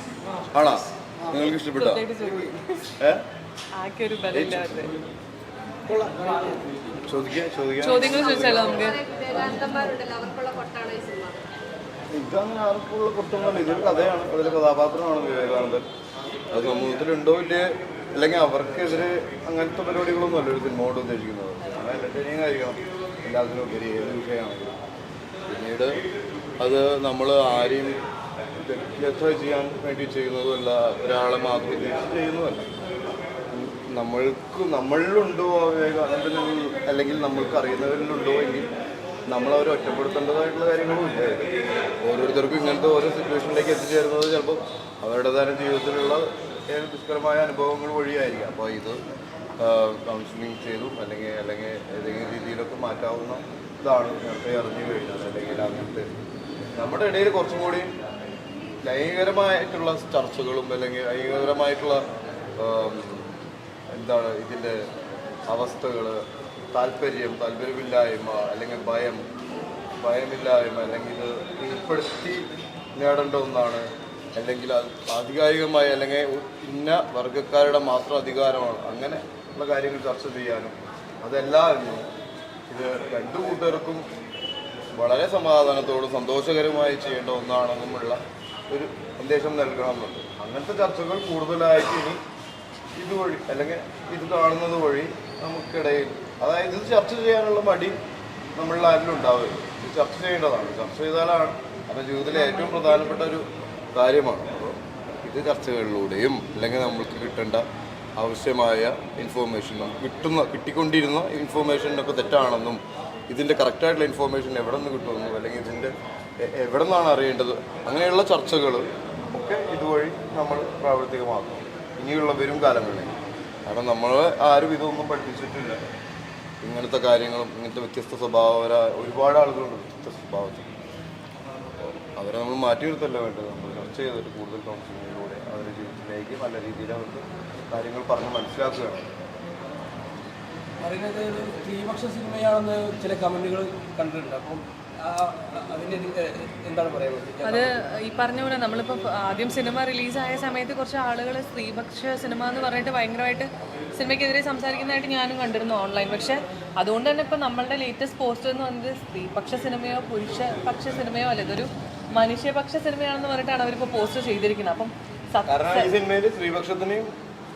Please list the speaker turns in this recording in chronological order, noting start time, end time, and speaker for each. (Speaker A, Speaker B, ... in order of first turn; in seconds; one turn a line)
Speaker A: 0.5-2.0
Speaker B: 1.8-2.9
Speaker B: 3.8-4.9
Speaker A: 4.3-4.9
Speaker C: 5.9-6.3
Speaker A: 7.0-8.9
Speaker B: 7.8-9.0
Speaker D: 8.1-11.4
Speaker A: 12.1-15.8
Speaker A: 16.5-24.8
Speaker A: 25.5-26.0
Speaker A: 26.6-28.0
Speaker A: 28.6-32.7
Speaker A: 33.5-38.7
Speaker A: 39.3-41.5
Speaker A: 42.0-49.0
Speaker A: 49.6-56.1
Speaker A: 56.8-57.9
Speaker A: 58.8-62.0
Speaker A: 62.6-64.9
Speaker A: 65.5-69.2
Speaker A: 70.0-82.1
Speaker A: 82.7-84.1
Speaker A: 84.9-92.2
Speaker A: 93.0-98.0
Speaker A: 98.6-107.6
Speaker A: 108.2-125.8
Speaker A: 126.6-130.8
Speaker A: 131.8-139.1
Speaker C: 140.8-147.5
Speaker B: 147.4-165.9
Speaker A: 165.5-167.1